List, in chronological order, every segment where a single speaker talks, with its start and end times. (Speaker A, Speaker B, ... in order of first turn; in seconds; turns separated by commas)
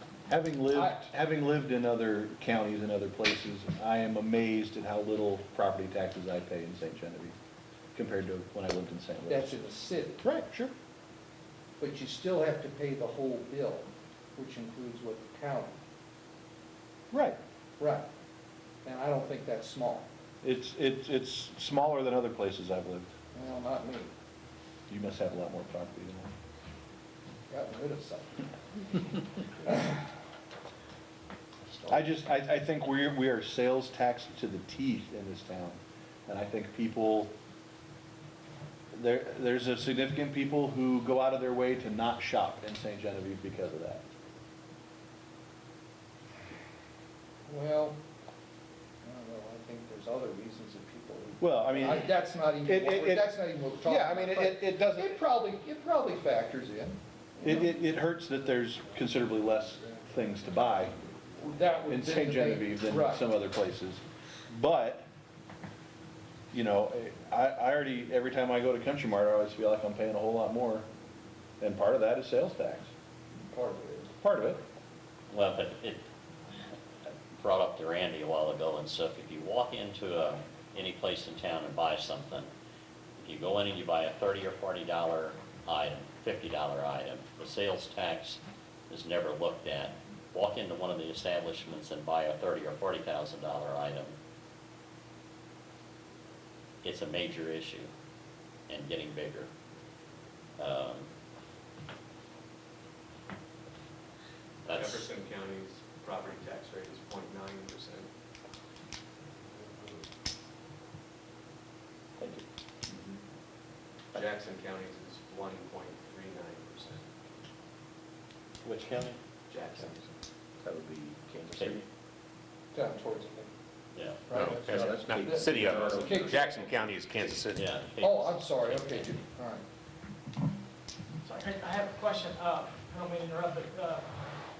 Speaker A: 0.3-7.3, Speaker B: 0.7-1.0, Speaker A: 7.9-9.6, Speaker B: 9.3-10.2, Speaker A: 10.2-10.7, Speaker B: 11.8-15.8, Speaker A: 17.1-17.4, Speaker B: 17.8-18.1, Speaker B: 18.8-20.1, Speaker A: 20.4-23.1, Speaker B: 23.3-24.1, Speaker A: 24.9-26.3, Speaker B: 27.5-30.0, Speaker B: 31.7-32.1, Speaker A: 31.9-37.3, Speaker A: 38.9-44.0, Speaker B: 47.5-48.0, Speaker B: 49.0-57.0, Speaker A: 51.4-52.1, Speaker A: 52.6-55.2, Speaker A: 57.4-61.0, Speaker B: 61.4-63.2, Speaker A: 61.9-65.1, Speaker A: 66.5-70.8, Speaker A: 71.6-72.9, Speaker B: 73.3-74.1, Speaker A: 74.2-74.6, Speaker C: 75.3-76.0, Speaker C: 77.3-82.5, Speaker C: 83.2-94.1, Speaker C: 96.8-97.9, Speaker C: 98.7-99.5, Speaker C: 100.6-101.1, Speaker C: 104.6-105.1, Speaker D: 104.7-108.1, Speaker E: 112.2-112.4, Speaker D: 114.1-117.1, Speaker D: 119.5-120.1, Speaker E: 120.6-121.9, Speaker B: 122.7-123.5, Speaker C: 123.9-124.2, Speaker B: 124.3-126.7, Speaker F: 124.3-127.7, Speaker E: 124.3-127.0, Speaker C: 127.5-129.2, Speaker B: 128.0-129.6, Speaker G: 131.2-134.1